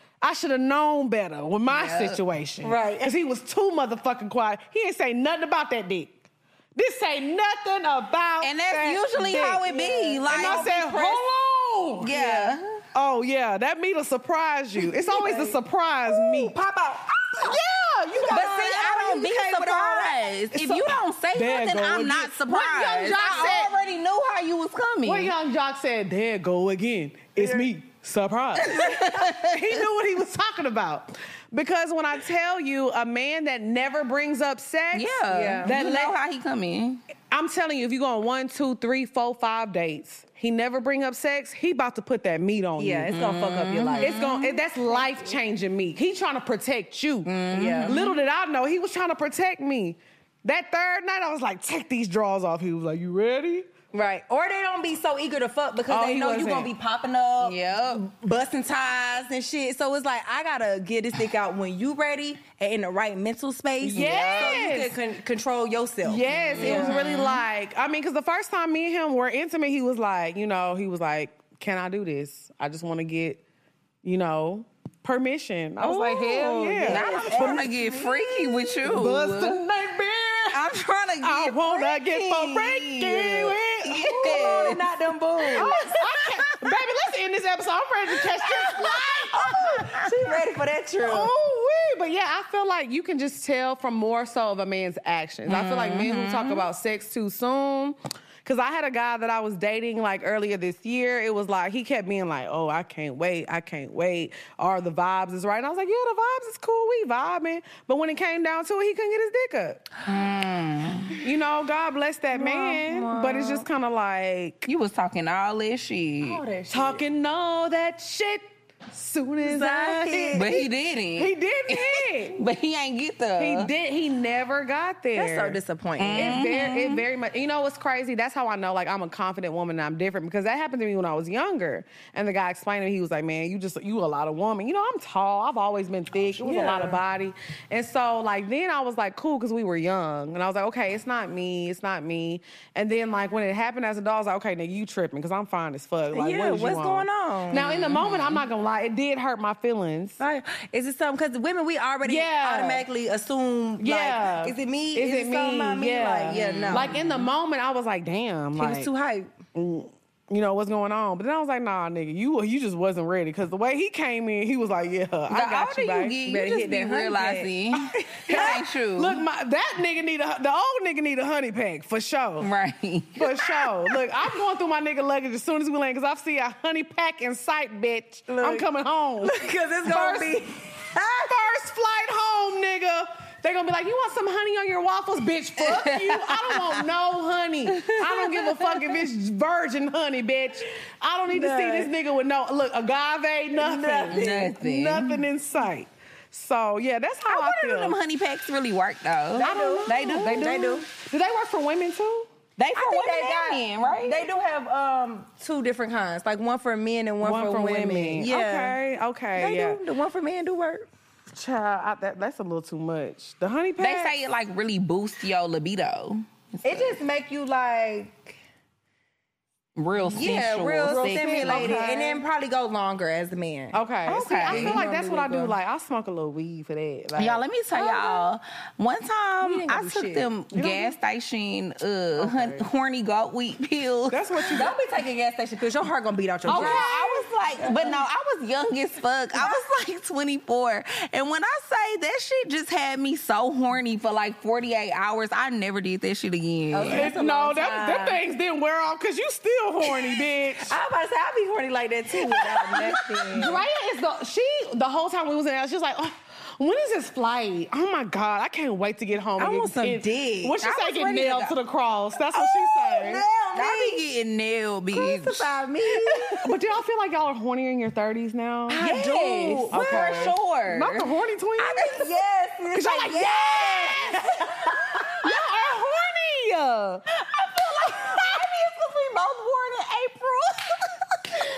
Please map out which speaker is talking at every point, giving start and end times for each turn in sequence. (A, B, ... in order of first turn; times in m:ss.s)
0:00.2-0:06.1 A
0:01.7-0:02.2 B
0:02.6-0:03.1 C
0:06.8-0:09.7 A
0:08.4-0:11.2 B
0:09.3-0:11.1 C
0:10.2-0:12.1 A
0:12.0-0:12.8 B
0:12.1-0:12.5 C
0:12.9-0:16.5 A
0:14.9-0:15.6 C
0:16.1-0:17.6 C
0:17.4-0:18.8 A
0:18.2-0:20.3 C
0:18.3-0:25.3 B
0:20.5-0:23.7 A
0:25.0-0:36.1 A
0:27.4-0:27.6 C
0:28.7-0:29.8 B
0:34.9-0:37.0 B
0:35.3-0:35.7 C
0:37.3-0:43.1 A
0:42.8-0:44.2 C
0:43.1-0:44.6 B
0:44.0-0:53.7 A
0:44.8-0:45.4 C
0:47.2-0:48.2 B
0:47.5-0:48.0 C
0:53.9-1:06.9 C
0:55.9-0:56.7 A
0:57.4-0:58.0 B
1:03.8-1:04.9 A
1:03.8-1:04.6 B
1:06.0-1:13.4 A
1:06.5-1:07.4 B
1:14.0-1:17.6 A
1:15.8-1:18.8 C
1:16.8-1:19.6 B
1:18.8-1:20.6 A
1:20.5-1:24.8 B
1:21.2-1:24.4 A
1:24.1-1:25.8 C
1:25.4-1:26.3 B
1:25.5-1:29.6 A
1:28.4-1:28.8 B
1:29.3-1:31.3 C
1:31.0-1:49.8 A
1:35.5-1:36.6 B
1:50.0-1:51.2 B
1:51.2-1:54.7 A
1:52.3-1:53.6 C
1:54.6-1:56.4 B
1:56.2-1:57.0 C
1:56.7-2:02.4 A
1:59.4-2:00.5 C
2:00.3-2:03.7 B
2:03.4-2:05.6 A
2:05.1-2:06.4 C
2:06.0-2:07.0 B
2:06.1-2:30.2 A
2:16.4-2:17.0 C
2:26.1-2:27.8 C
2:27.8-2:28.4 B
2:30.2-2:36.9 C
2:32.0-2:32.8 A
2:33.8-2:38.9 A
2:36.3-2:37.2 B
2:38.5-2:39.3 C
2:39.5-2:46.1 A
2:45.3-2:49.2 B
2:46.2-2:48.6 C
2:47.8-2:52.5 A
2:52.4-2:53.3 B
2:53.2-3:00.4 A
2:58.3-2:58.7 C
2:59.2-3:01.4 C
3:01.2-3:18.0 A
3:05.7-3:06.7 B
3:07.8-3:08.3 B
3:11.3-3:11.9 C
3:13.6-3:14.5 C
3:14.1-3:15.2 B
3:17.3-3:20.6 B
3:19.4-3:20.8 C
3:19.4-3:22.3 A
3:22.6-3:24.3 B
3:22.7-3:28.8 C
3:27.2-3:29.8 A
3:29.4-3:30.9 C
3:31.3-3:34.1 A
3:33.8-3:37.0 B
3:36.6-3:38.4 C
3:39.8-3:41.8 B
3:40.0-3:45.5 C
3:40.9-3:42.2 A
3:43.7-3:47.4 A
3:44.1-3:44.8 B
3:47.2-3:54.6 B
3:47.7-3:48.3 C
3:49.4-3:50.2 C
3:50.5-3:51.0 A
3:52.2-3:52.7 A
3:54.1-3:54.7 A
3:54.5-3:56.9 C
3:56.4-3:57.3 A
3:56.5-4:07.1 B
3:57.6-3:58.0 C
4:06.7-4:08.2 C
4:06.8-4:10.7 A
4:10.6-4:13.6 C
4:12.4-4:23.2 A
4:19.4-4:20.6 C
4:20.6-4:21.5 B
4:22.3-4:24.0 C
4:23.5-4:25.5 B
4:24.9-4:26.5 C
4:26.4-4:32.1 A
4:28.7-4:30.3 C
4:28.8-4:31.0 B
4:31.6-4:35.1 C
4:32.7-4:34.2 A
4:35.2-4:37.0 A
4:35.3-4:35.8 B
4:37.4-4:41.4 B
4:37.9-4:38.4 A